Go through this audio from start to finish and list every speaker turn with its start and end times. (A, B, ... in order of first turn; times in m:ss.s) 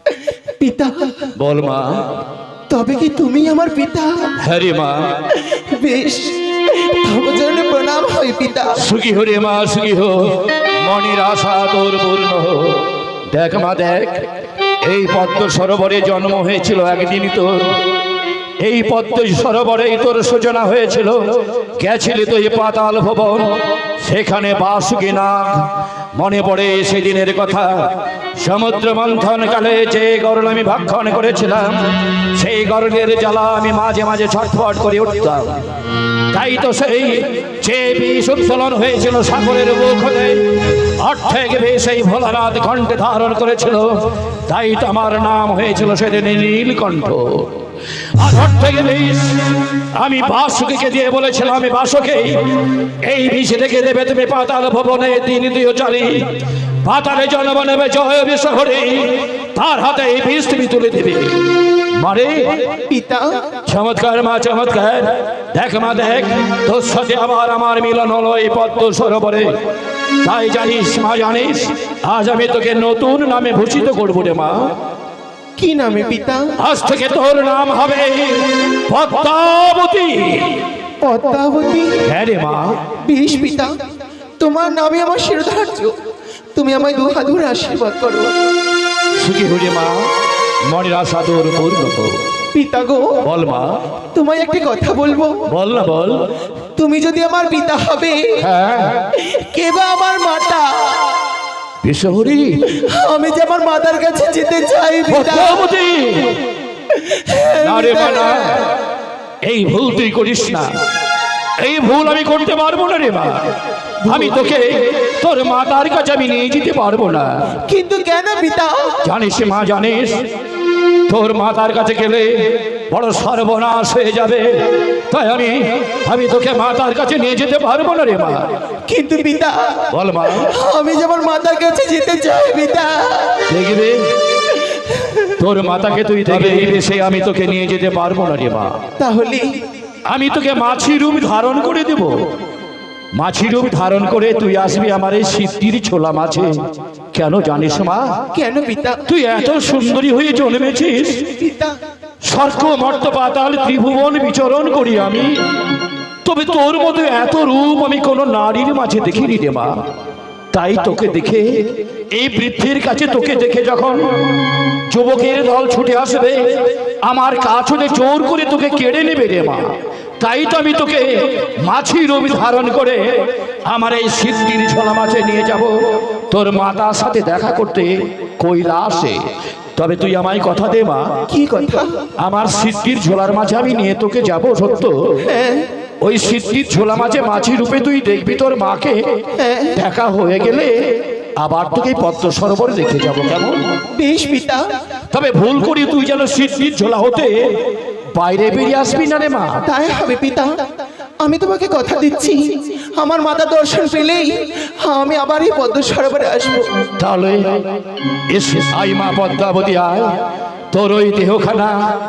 0:00.6-0:01.3 A
0:01.4-0:02.2 B
0:02.7-0:04.3 A
0:04.4-0:05.2 B
0:05.3-0:08.8 A
0:08.8-0:14.2 B
0:14.8-0:17.8 B
0:18.6-0:21.2 B
0:21.8-0:23.5 B
0:24.0-0:27.7 B
0:28.4-0:35.6 B
0:36.3-0:49.4 B
0:49.9-1:01.4 B
1:02.0-1:02.4 B
1:02.9-1:03.4 A
1:03.6-1:09.5 B
1:10.2-1:14.7 B
1:15.6-1:16.5 A
1:16.6-1:20.6 B
1:21.0-1:22.0 A
1:22.0-1:22.8 B
1:23.0-1:23.7 A
1:24.4-1:25.9 A
1:26.5-1:28.3 A
1:29.2-1:30.1 B
1:30.7-1:32.2 B
1:32.5-1:33.2 A
1:33.2-1:33.7 B
1:34.1-1:35.4 A
1:35.5-1:36.2 B
1:36.8-1:38.4 A
1:38.4-1:39.1 B
1:39.1-1:41.1 A
1:41.8-1:42.6 B
1:42.6-1:45.6 A
1:45.1-1:46.4 B
1:46.9-1:48.6 A
1:47.6-1:48.7 B
1:49.4-1:50.7 B
1:51.6-1:53.5 B
1:54.0-1:54.4 A
1:54.0-1:57.6 B
1:57.7-1:58.9 A
1:59.0-2:00.2 B
2:01.1-2:04.5 B
2:05.1-2:08.5 B
2:08.9-2:09.8 A
2:09.9-2:10.5 B
2:10.4-2:13.4 A
2:13.5-2:14.1 B
2:14.5-2:15.3 A
2:15.4-2:18.8 B
2:19.0-2:19.5 A
2:20.0-2:22.1 B
2:23.2-2:26.5 B
2:27.1-2:28.2 B
2:28.3-2:29.0 A
2:29.1-2:31.3 B
2:31.3-2:31.8 A
2:32.2-2:35.4 B
2:36.2-2:39.8 B
2:40.5-2:44.0 B
2:44.9-2:46.4 B
2:47.0-2:55.8 B
2:56.3-2:59.2 B
2:59.8-3:01.2 B
3:01.3-3:02.0 A
3:02.2-3:05.2 B
3:05.2-3:05.7 A
3:06.0-3:09.0 B
3:09.4-3:09.8 A
3:09.8-3:10.7 B
3:11.4-3:13.6 B
3:13.9-3:14.6 A
3:15.1-3:17.5 B
3:18.1-3:19.6 B
3:19.6-3:20.5 A
3:21.2-3:26.7 A
3:27.0-3:30.1 B
3:30.7-3:31.8 B